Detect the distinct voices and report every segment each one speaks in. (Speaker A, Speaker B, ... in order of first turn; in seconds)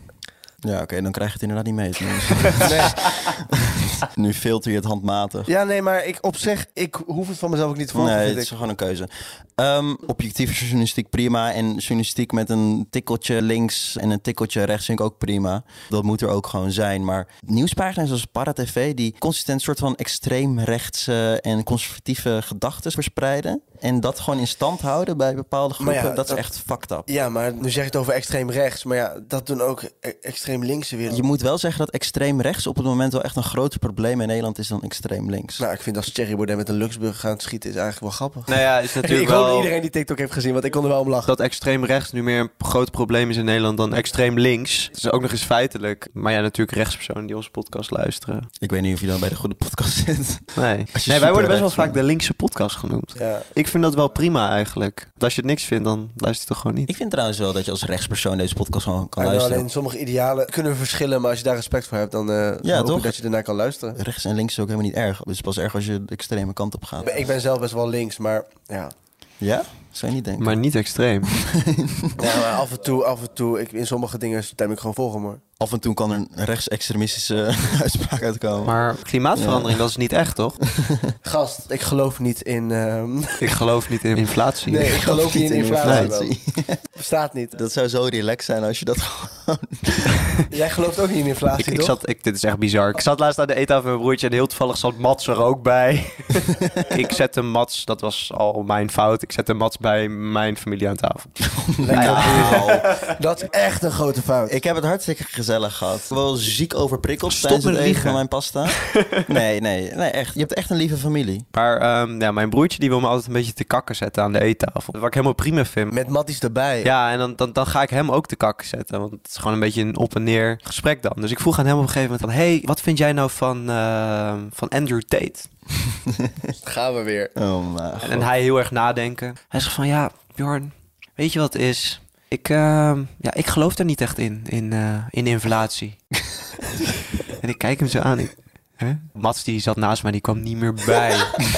Speaker A: 0.6-5.5, 7.9-27.1, 31.1-35.6, 48.6-52.0, 56.9-59.7, 62.6-63.2, 64.0-67.1, 69.4-70.6, 71.3-72.3, 75.6-78.8, 79.3-79.8, 80.6-81.1, 84.9-86.8, 87.5-90.2, 101.6-102.9, 104.5-111.5, 126.0-126.4, 127.4-128.3
Speaker B: 2.6-3.0, 5.5-8.5, 25.8-26.4, 27.1-31.2, 35.6-41.3, 53.2-53.5, 59.2-64.0, 67.0-68.9, 72.2-75.4, 81.2-83.6, 84.7-86.3, 87.0-87.6, 90.5-92.0, 101.8-104.6, 115.9-116.9, 126.6-127.3
Speaker C: 38.5-39.7, 41.3-48.5, 50.6-56.9, 70.4-71.3, 78.7-80.6, 83.4-85.1, 85.8-86.1, 91.6-103.1, 107.3-109.4, 111.5-115.9, 116.8-125.5, 128.0-136.0, 137.3-141.4